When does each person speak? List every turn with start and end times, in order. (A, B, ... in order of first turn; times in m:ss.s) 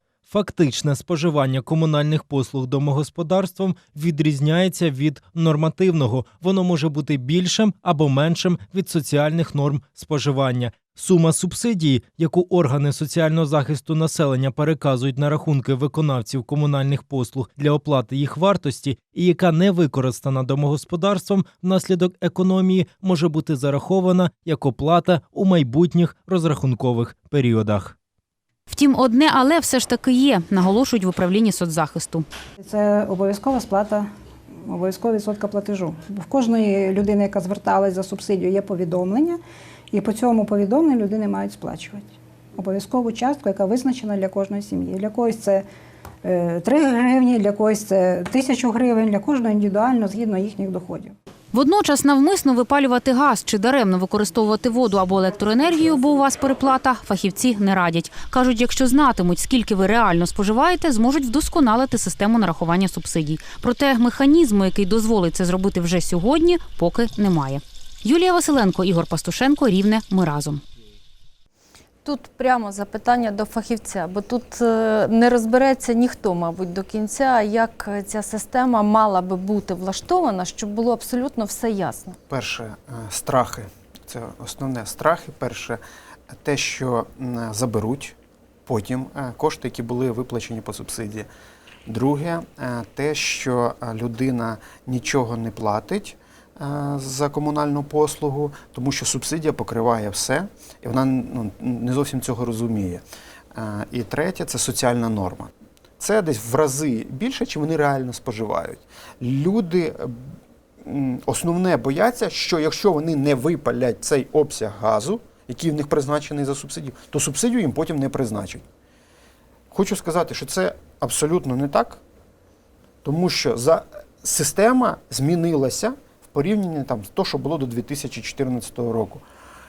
0:00.3-0:27.9 A
0:28.7-0:32.2 B
0:32.6-0:34.1 C
0:34.6-0:45.6 C
0:46.2-0:51.1 C
0:51.5-1:10.6 B
1:12.0-1:22.2 D
1:22.3-1:31.3 E
1:31.9-1:43.0 E
1:43.5-1:58.6 E
1:59.7-2:02.0 E
2:03.0-2:09.2 E